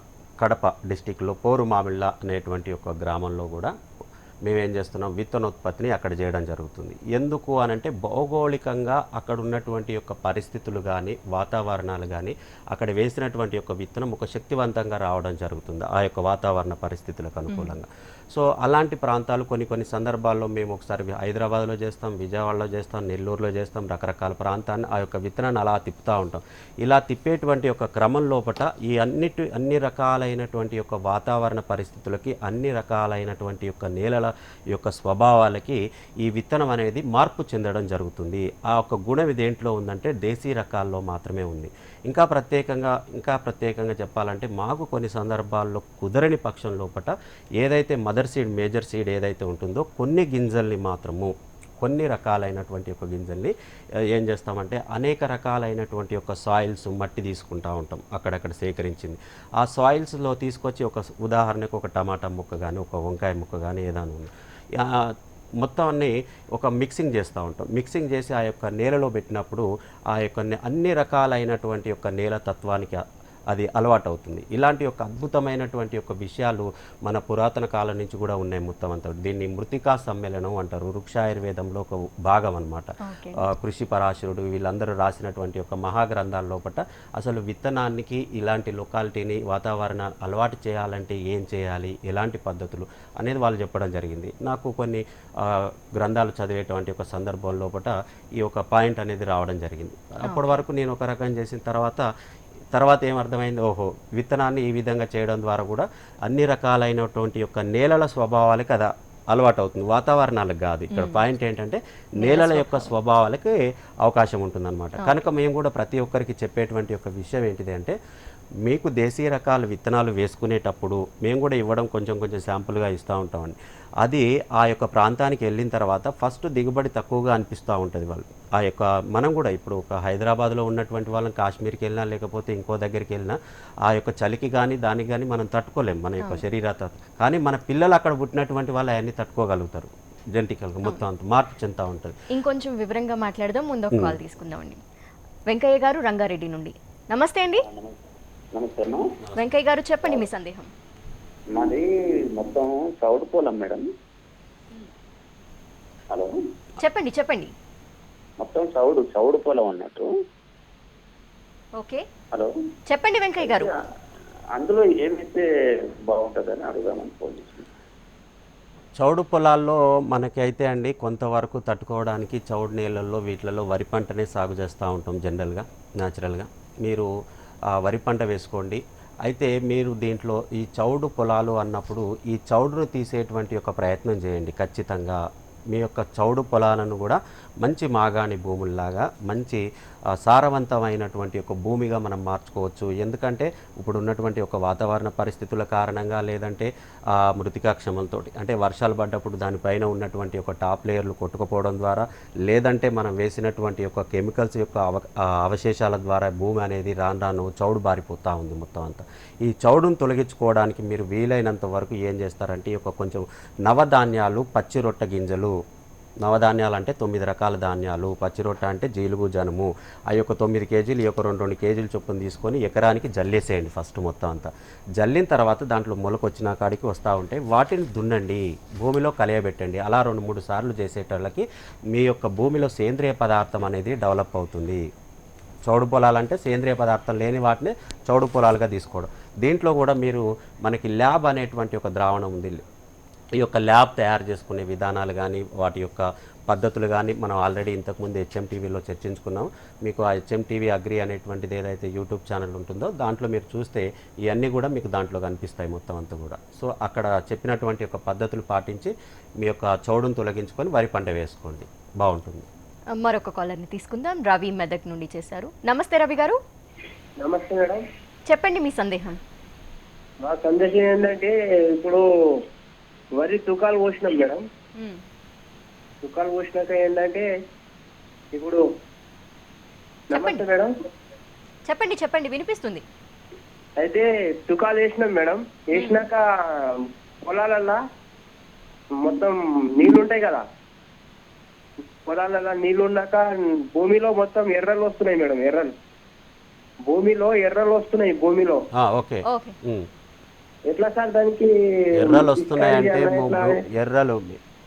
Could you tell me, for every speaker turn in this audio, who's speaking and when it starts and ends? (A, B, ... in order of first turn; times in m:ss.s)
0:00.4-0:03.7 A
0:04.4-0:53.5 A
0:17.5-0:17.8 B
0:54.1-1:42.1 A
1:23.0-1:23.4 B
1:40.3-1:40.6 B
1:42.7-1:58.0 A
1:50.9-1:51.2 B
1:52.2-1:52.9 B
1:58.6-2:22.2 A
2:22.3-2:24.8 B
2:25.5-2:27.7 B
2:27.6-2:28.0 C
2:28.5-2:29.0 C
2:29.4-2:30.7 B
2:31.5-2:33.9 C
2:36.1-2:36.4 C
2:36.8-2:37.5 B
2:38.4-2:40.1 C
2:41.8-2:42.0 B
2:42.9-2:43.7 B
2:43.4-2:43.8 C
2:44.5-2:45.5 C
2:46.1-2:47.7 C
2:49.0-2:57.1 A
2:57.7-3:09.6 A
3:10.2-3:35.6 A
3:36.2-3:54.8 A
3:55.7-4:02.6 A
4:03.4-4:22.5 A
4:23.0-4:26.4 B
4:27.2-4:27.8 D
4:28.3-4:29.2 B
4:30.2-4:32.4 D
4:33.2-4:34.4 D
4:34.8-4:35.0 B
4:36.0-4:37.3 D
4:38.4-4:38.6 D
4:40.1-4:40.4 B
4:40.1-4:40.7 D
4:41.7-4:42.8 B
4:43.8-4:47.8 D
4:45.8-4:46.0 B
4:49.0-4:50.4 D
4:52.0-4:55.7 D
4:56.9-4:58.6 D
4:58.8-4:59.9 A
4:59.3-4:59.6 B
5:00.7-5:03.6 D
5:02.0-5:04.4 A